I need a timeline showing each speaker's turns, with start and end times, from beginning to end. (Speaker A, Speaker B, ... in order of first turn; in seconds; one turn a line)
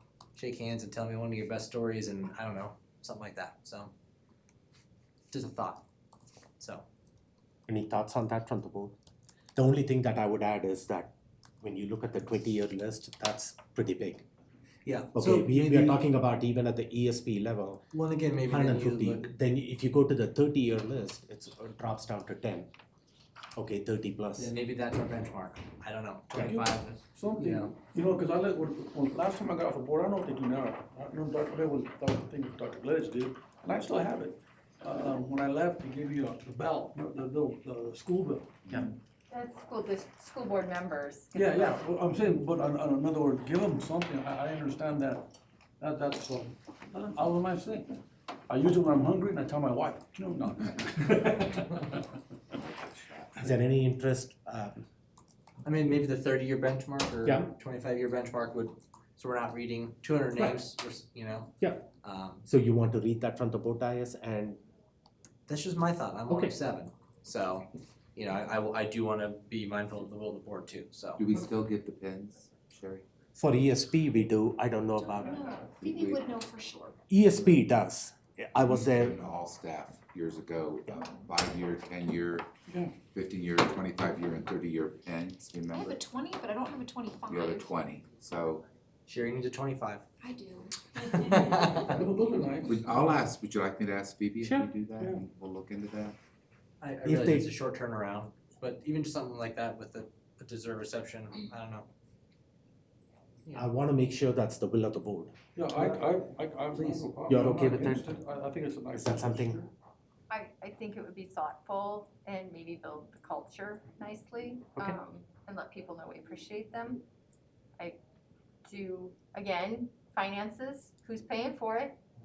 Speaker A: 0.3-3.9
Speaker A: 5.3-5.8
Speaker A: 6.6-6.8
Speaker B: 7.7-8.9
Speaker B: 9.5-14.2
Speaker A: 14.8-16.0
Speaker B: 15.1-17.9
Speaker A: 17.9-19.3
Speaker B: 18.5-22.7
Speaker B: 23.5-24.5
Speaker A: 24.4-27.7
Speaker C: 26.4-38.7
Speaker D: 39.3-41.8
Speaker C: 41.3-48.0
Speaker C: 48.5-52.0
Speaker E: 52.5-53.5
Speaker B: 53.4-54.8
Speaker A: 55.6-62.4
Speaker B: 57.2-57.5
Speaker B: 61.6-61.9
Speaker B: 62.4-64.6
Speaker A: 65.5-71.2
Speaker E: 71.2-73.0
Speaker B: 73.3-76.0
Speaker F: 75.2-77.0
Speaker E: 75.7-76.2
Speaker B: 77.1-79.2
Speaker E: 78.6-82.5
Speaker C: 82.7-83.0
Speaker E: 83.1-86.1
Speaker F: 85.7-87.7
Speaker E: 87.2-88.7
Speaker A: 89.0-90.1
Speaker F: 90.2-91.9
Speaker A: 91.1-92.0
Speaker C: 91.8-93.2
Speaker E: 92.6-96.2
Speaker B: 94.4-94.7
Speaker A: 96.8-101.9
Speaker B: 97.0-97.5
Speaker B: 103.5-105.3
Speaker C: 105.5-109.7
Speaker A: 106.7-107.0
Speaker B: 107.3-108.1
Speaker B: 108.9-109.6
Speaker D: 110.3-117.0
Speaker D: 118.6-122.0